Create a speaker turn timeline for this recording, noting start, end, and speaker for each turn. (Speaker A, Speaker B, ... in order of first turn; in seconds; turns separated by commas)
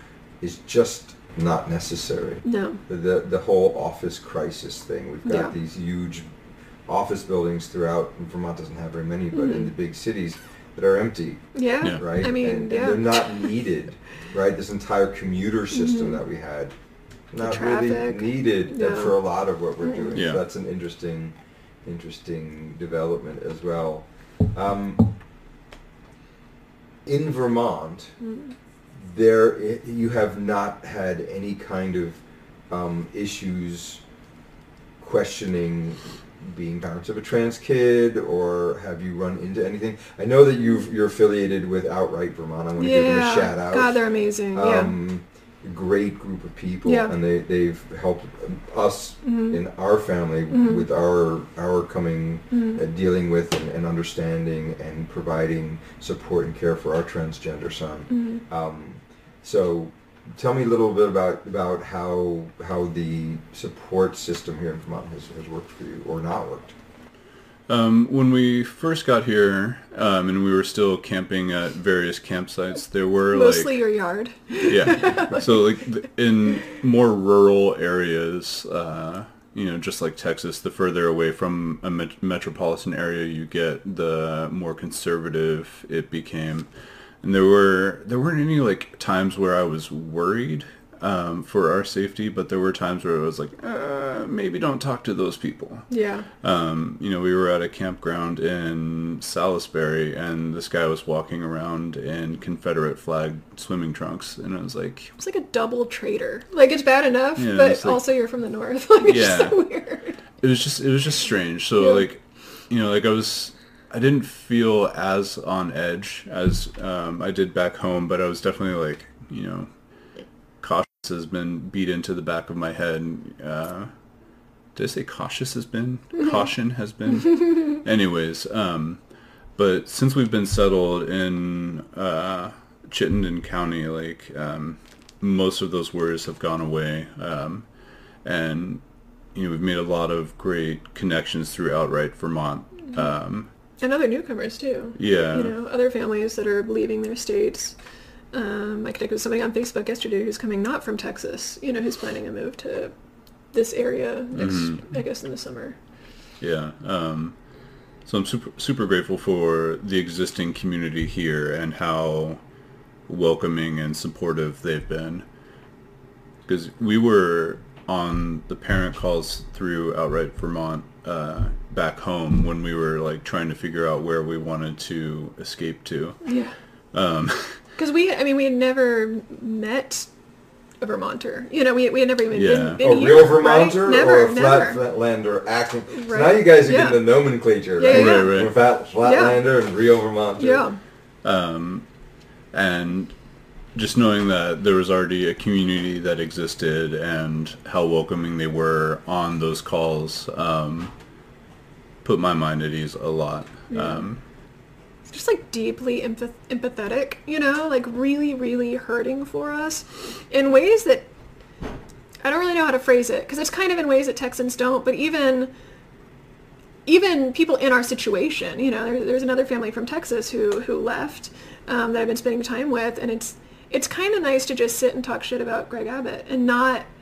Speaker A: 0.4-6.3, Speaker B: 2.4-2.8, Speaker B: 5.2-5.5, Speaker A: 6.8-16.7, Speaker B: 9.3-9.7, Speaker B: 11.5-13.5, Speaker B: 15.7-16.2, Speaker A: 17.3-25.1, Speaker B: 17.4-19.2, Speaker B: 19.8-20.2, Speaker C: 20.1-20.4, Speaker A: 27.0-28.2, Speaker B: 28.2-28.5, Speaker A: 28.9-34.0, Speaker A: 35.0-66.7, Speaker B: 42.8-44.9, Speaker B: 46.8-47.1, Speaker B: 49.2-49.6, Speaker B: 50.5-50.8, Speaker B: 52.5-52.8, Speaker B: 58.1-58.4, Speaker C: 67.7-73.9, Speaker B: 73.3-75.6, Speaker C: 74.6-86.7, Speaker C: 87.2-95.9, Speaker B: 95.9-96.3, Speaker C: 96.4-105.1, Speaker B: 105.2-110.2, Speaker C: 107.4-108.0, Speaker C: 109.0-109.7, Speaker C: 110.4-119.7, Speaker B: 111.8-112.0, Speaker C: 120.6-123.9, Speaker C: 124.7-129.0, Speaker C: 129.6-137.7, Speaker C: 138.2-138.8, Speaker C: 139.3-143.5, Speaker B: 143.8-147.8, Speaker C: 145.0-145.5, Speaker B: 148.3-152.9, Speaker B: 153.5-155.8, Speaker C: 154.3-154.9, Speaker C: 156.4-157.5, Speaker C: 158.0-162.4, Speaker C: 163.1-165.2, Speaker C: 166.4-176.3, Speaker B: 176.2-176.6, Speaker C: 176.9-177.6, Speaker B: 177.8-180.1, Speaker B: 180.8-184.8, Speaker C: 182.3-182.8, Speaker A: 182.8-190.7, Speaker B: 185.9-187.2, Speaker B: 187.8-188.5, Speaker C: 187.9-188.5, Speaker B: 189.0-189.4, Speaker B: 190.4-190.8, Speaker C: 191.2-191.8, Speaker C: 192.5-193.1, Speaker C: 193.7-200.9, Speaker C: 202.0-204.2, Speaker B: 203.7-204.1, Speaker B: 205.1-211.1, Speaker B: 212.2-215.5, Speaker B: 216.8-226.9